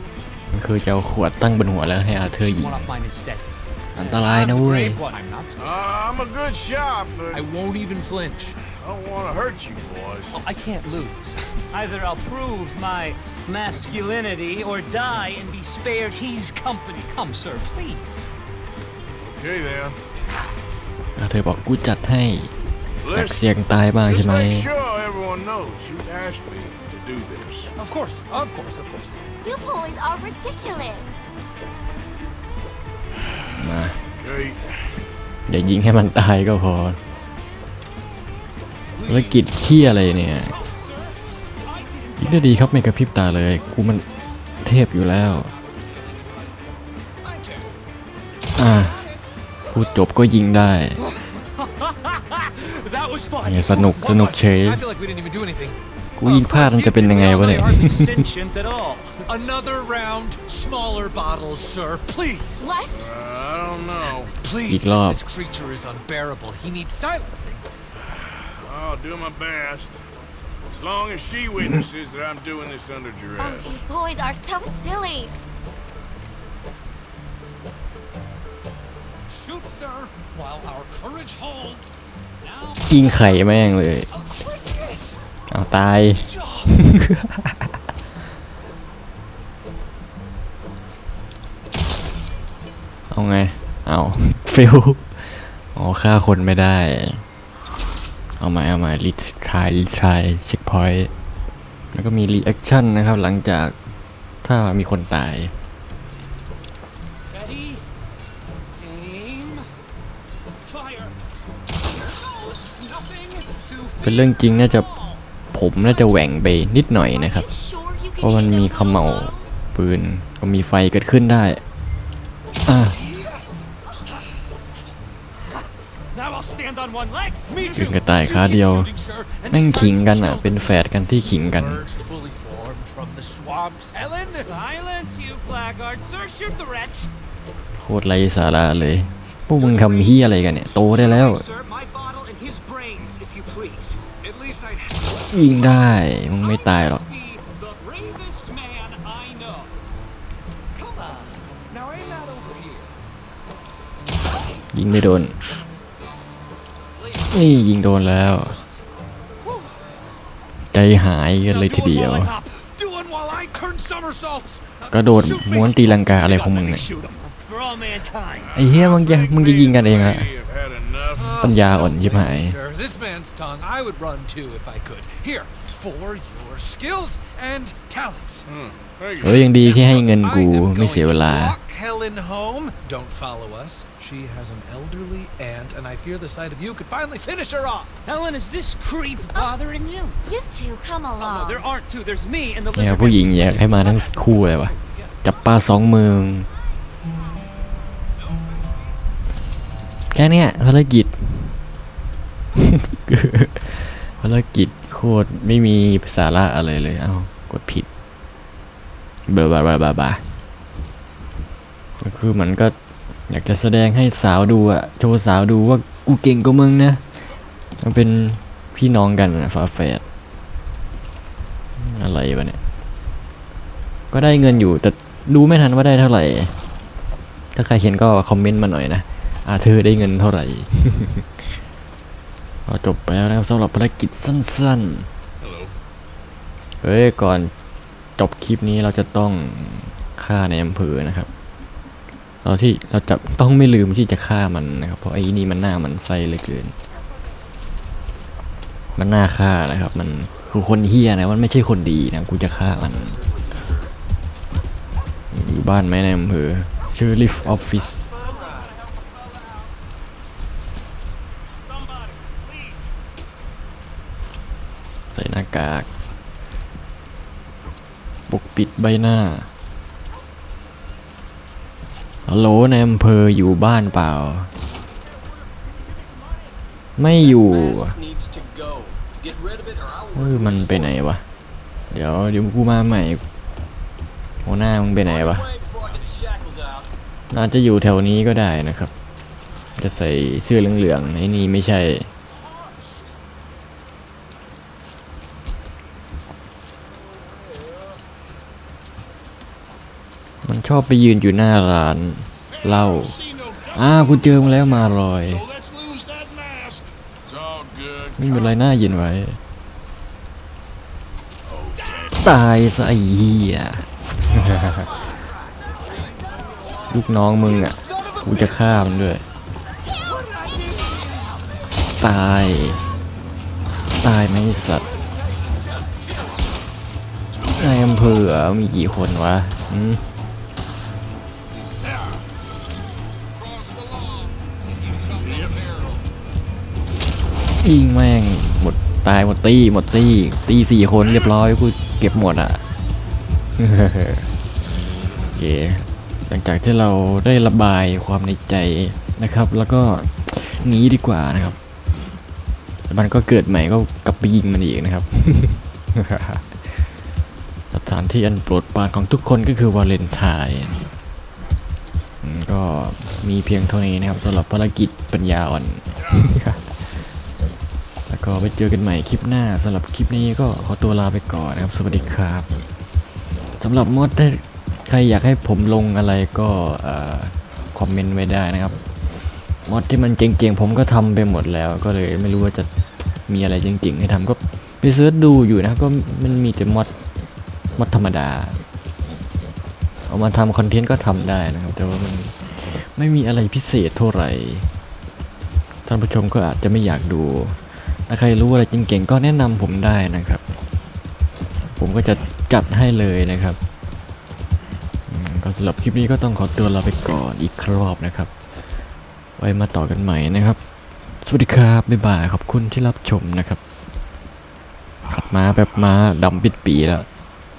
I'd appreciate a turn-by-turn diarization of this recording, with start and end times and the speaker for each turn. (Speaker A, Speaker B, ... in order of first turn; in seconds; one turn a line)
Speaker A: 0.5-2.9
Speaker B: 2.3-3.5
Speaker A: 3.9-5.0
Speaker C: 4.0-5.0
Speaker B: 4.5-5.7
Speaker D: 5.6-7.4
Speaker B: 7.3-8.6
Speaker D: 8.8-10.4
Speaker B: 10.3-11.5
Speaker C: 11.7-18.3
Speaker D: 19.2-20.0
Speaker A: 21.2-22.5
Speaker D: 23.0-23.4
Speaker A: 23.1-24.7
Speaker D: 24.1-27.7
Speaker B: 27.8-29.3
Speaker E: 29.4-31.1
Speaker A: 33.6-34.0
Speaker D: 34.2-34.7
Speaker A: 35.5-37.0
Speaker B: 38.9-39.5
Speaker A: 39.0-40.5
Speaker C: 40.6-41.1
Speaker C: 41.6-42.7
Speaker A: 42.2-44.1
Speaker A: 44.6-45.5
Speaker B: 47.2-47.7
Speaker A: 48.5-49.0
Speaker A: 49.7-51.0
Speaker C: 51.2-53.7
Speaker A: 53.4-54.8
Speaker B: 53.7-55.8
Speaker A: 56.2-58.3
Speaker C: 56.2-59.2
Speaker B: 59.3-62.7
Speaker E: 62.6-63.1
Speaker D: 62.9-64.3
Speaker B: 64.3-67.6
Speaker A: 64.7-65.2
Speaker D: 68.0-70.0
Speaker D: 70.7-73.9
Speaker E: 73.4-75.3
Speaker B: 79.2-82.0
Speaker C: 82.4-83.0
Speaker A: 82.9-84.1
Speaker B: 84.1-85.2
Speaker A: 85.5-87.7
Speaker B: 86.2-86.7
Speaker A: 93.1-97.2
Speaker A: 98.4-101.1
Speaker A: 101.9-103.7
Speaker A: 104.4-105.5
Speaker C: 107.3-107.8
Speaker C: 108.8-109.7
Speaker C: 110.7-111.1
Speaker C: 112.1-115.2
Speaker A: 114.0-114.9
Speaker A: 115.5-117.5
Speaker E: 117.1-119.5
Speaker A: 118.2-121.6
Speaker A: 122.7-123.0
Speaker B: 123.0-123.5
Speaker B: 126.2-126.4
Speaker C: 126.2-127.6
Speaker B: 127.4-134.5
Speaker A: 127.7-128.9
Speaker A: 129.5-131.8
Speaker C: 134.3-137.1
Speaker A: 137.8-141.4
Speaker C: 139.5-149.7
Speaker A: 145.2-147.0
Speaker B: 150.7-152.9
Speaker A: 154.7-155.3
Speaker A: 157.3-158.6
Speaker B: 159.4-159.8
Speaker A: 160.7-162.3
Speaker C: 161.5-162.4
Speaker B: 162.4-167.4
Speaker A: 164.9-166.9
Speaker C: 167.4-168.6
Speaker D: 168.3-171.4
Speaker A: 168.5-170.3
Speaker B: 171.1-178.5
Speaker A: 171.4-172.6
Speaker D: 178.5-179.5
Speaker A: 179.2-181.6
Speaker B: 179.6-187.9
Speaker C: 188.0-190.2
Speaker E: 190.3-191.6
Speaker C: 191.2-193.9
Speaker A: 192.7-196.5
Speaker B: 193.8-195.1
Speaker A: 200.1-201.6
Speaker A: 202.6-207.9
Speaker A: 209.3-210.3
Speaker A: 212.0-212.7
Speaker A: 213.3-217.0
Speaker A: 217.8-220.0
Speaker A: 221.8-222.6
Speaker A: 224.1-226.5
Speaker A: 227.5-231.4
Speaker A: 232.7-235.1
Speaker D: 235.4-235.7
Speaker A: 236.8-237.5
Speaker A: 238.2-241.3
Speaker A: 242.4-246.7
Speaker A: 248.9-253.2
Speaker A: 255.3-258.1
Speaker C: 261.8-262.5
Speaker A: 265.1-265.9
Speaker A: 268.3-269.5
Speaker A: 272.3-274.5
Speaker A: 277.0-278.0
Speaker F: 277.3-280.9
Speaker A: 280.1-281.2
Speaker A: 281.9-283.2
Speaker A: 284.4-285.5
Speaker F: 285.1-286.9
Speaker A: 287.3-288.9
Speaker A: 289.8-292.1
Speaker A: 300.4-303.2
Speaker D: 302.6-308.5
Speaker A: 303.7-305.5
Speaker A: 308.2-309.4
Speaker D: 311.5-312.2
Speaker A: 312.2-315.0
Speaker A: 316.9-319.2
Speaker B: 317.5-318.6
Speaker B: 320.1-321.2
Speaker A: 322.0-322.9
Speaker A: 324.0-324.9
Speaker A: 327.5-330.0
Speaker D: 335.2-335.7
Speaker F: 335.4-335.7
Speaker A: 337.6-342.6
Speaker A: 343.6-344.3
Speaker A: 345.3-351.6
Speaker A: 352.9-356.9
Speaker A: 357.7-360.9
Speaker A: 362.2-367.1
Speaker D: 366.0-366.3
Speaker A: 368.1-372.5
Speaker A: 373.6-386.9
Speaker A: 387.8-388.6
Speaker A: 390.1-394.7
Speaker A: 395.9-400.4
Speaker A: 401.8-403.6
Speaker A: 405.1-408.6
Speaker A: 409.4-410.6
Speaker A: 411.2-413.6
Speaker A: 415.1-417.1